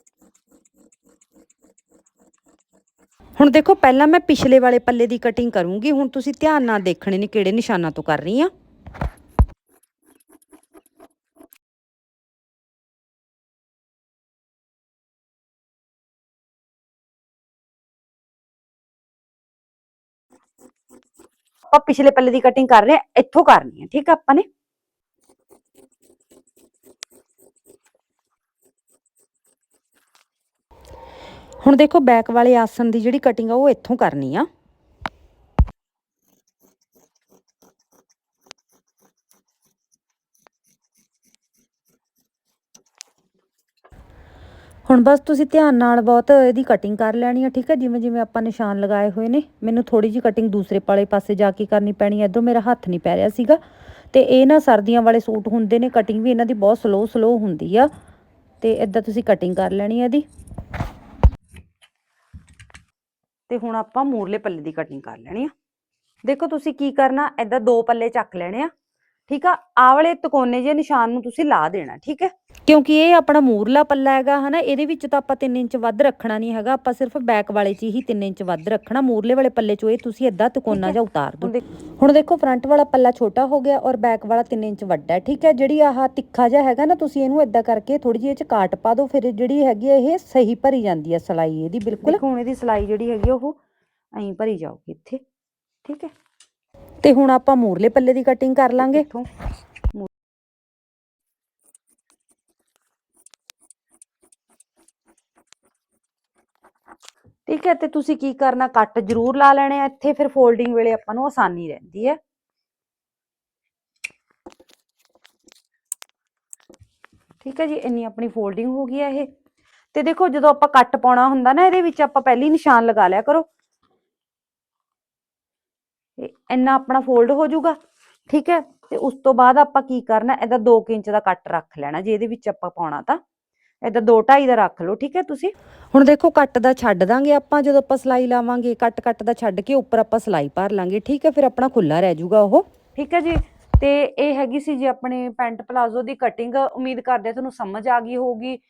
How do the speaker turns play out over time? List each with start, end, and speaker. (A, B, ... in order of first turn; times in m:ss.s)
0:03.4-0:08.5 A
0:21.7-0:24.5 B
0:31.6-0:34.5 A
0:44.9-0:53.6 A
0:54.1-0:57.9 A
0:58.6-1:00.2 A
1:03.5-1:05.5 B
1:06.2-1:08.7 B
1:09.3-1:12.3 B
1:12.7-1:32.2 A
1:20.7-1:21.6 B
1:32.0-1:33.6 B
1:34.1-1:35.2 B
1:35.8-1:36.1 B
1:37.0-1:39.0 A
1:38.8-1:39.3 B
1:47.5-1:52.2 B
1:57.4-1:59.3 B
1:59.9-2:03.5 B
2:06.2-2:07.8 B
2:08.3-2:13.2 B
2:13.8-2:15.5 B
2:15.9-2:22.6 A
2:23.0-2:28.6 B